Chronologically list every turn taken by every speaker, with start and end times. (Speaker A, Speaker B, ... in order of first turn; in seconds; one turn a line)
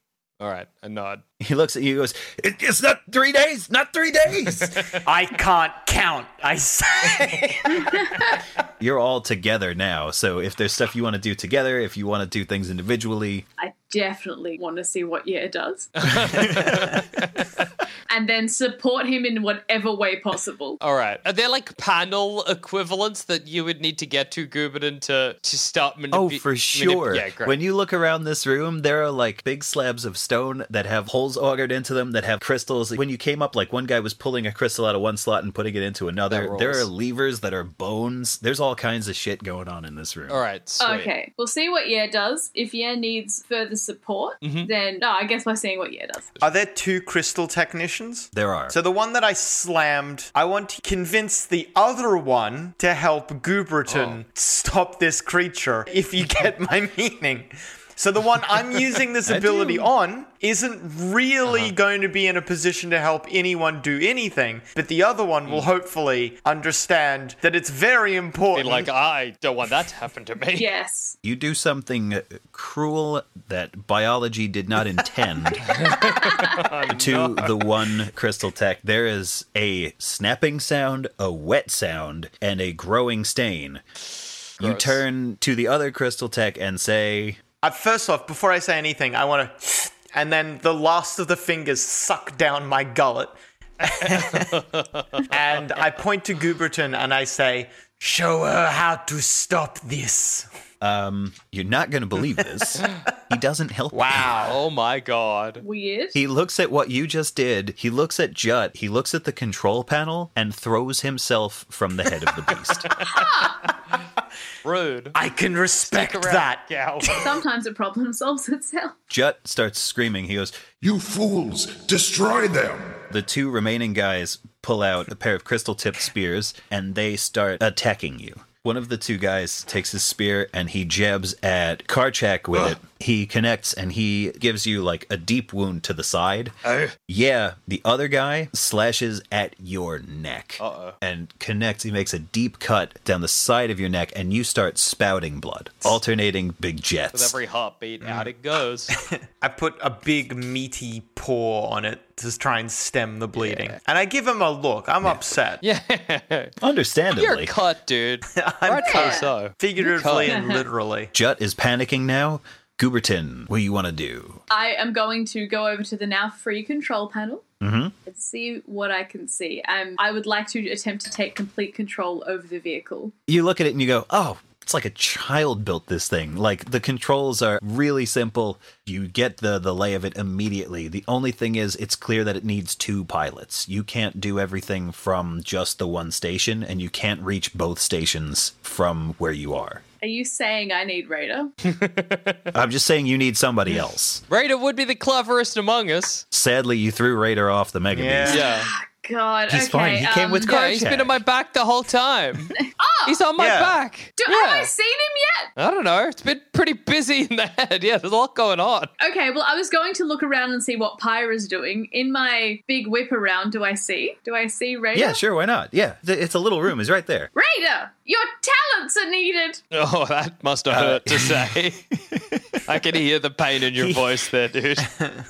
Speaker A: 0.4-1.2
Speaker B: 1.4-4.9
Speaker A: 4.7-5.0
Speaker C: 5.0-8.0
Speaker B: 8.8-13.5
Speaker D: 13.6-15.9
Speaker A: 16.0-17.4
Speaker C: 16.4-17.0
Speaker D: 18.1-20.8
Speaker A: 20.8-27.6
Speaker B: 26.1-40.4
Speaker A: 36.3-36.9
Speaker A: 40.3-41.1
Speaker D: 40.8-46.3
Speaker A: 44.4-44.7
Speaker C: 46.4-68.9
Speaker B: 48.3-48.8
Speaker A: 53.9-54.2
Speaker B: 59.3-59.9
Speaker A: 61.5-61.7
Speaker A: 68.5-70.7
Speaker D: 70.6-71.2
Speaker B: 71.2-76.0
Speaker A: 75.6-77.7
Speaker B: 76.9-83.8
Speaker A: 84.6-85.0
Speaker B: 84.6-87.4
Speaker C: 87.6-94.6
Speaker A: 93.8-95.3
Speaker C: 95.2-100.5
Speaker B: 100.8-104.3
Speaker C: 103.9-104.6
Speaker A: 104.4-105.6
Speaker D: 105.6-106.2
Speaker B: 106.1-113.1
Speaker A: 112.8-113.8
Speaker D: 113.1-113.6
Speaker A: 114.6-115.2
Speaker C: 115.2-117.4
Speaker A: 115.9-117.1
Speaker D: 117.1-118.9
Speaker B: 119.1-120.6
Speaker E: 120.8-123.1
Speaker B: 123.1-136.6
Speaker A: 136.6-136.9
Speaker B: 137.1-147.3
Speaker A: 140.6-141.0
Speaker A: 147.1-148.9
Speaker C: 148.9-155.6
Speaker A: 153.4-153.8
Speaker A: 155.6-156.5
Speaker B: 156.6-157.5
Speaker A: 157.1-160.4
Speaker C: 158.3-161.1
Speaker D: 158.9-159.3
Speaker D: 160.3-160.6
Speaker B: 161.1-164.4
Speaker D: 164.5-167.4
Speaker B: 167.6-167.9
Speaker D: 168.1-173.1
Speaker B: 173.3-189.8
Speaker D: 190.0-191.5
Speaker A: 191.7-192.5
Speaker B: 192.5-194.2
Speaker A: 193.7-196.2
Speaker B: 196.3-198.4
Speaker C: 197.9-198.4
Speaker A: 198.3-198.7
Speaker D: 198.4-200.5
Speaker B: 199.5-201.2
Speaker A: 200.4-202.6
Speaker D: 202.8-203.2
Speaker A: 203.1-204.7
Speaker C: 203.4-203.8
Speaker D: 204.2-205.5
Speaker A: 205.6-208.9
Speaker D: 209.0-215.2
Speaker B: 214.9-217.3
Speaker D: 217.3-219.6
Speaker A: 219.7-221.8
Speaker B: 220.7-221.5
Speaker B: 222.1-222.6
Speaker A: 222.7-224.9
Speaker B: 223.8-224.1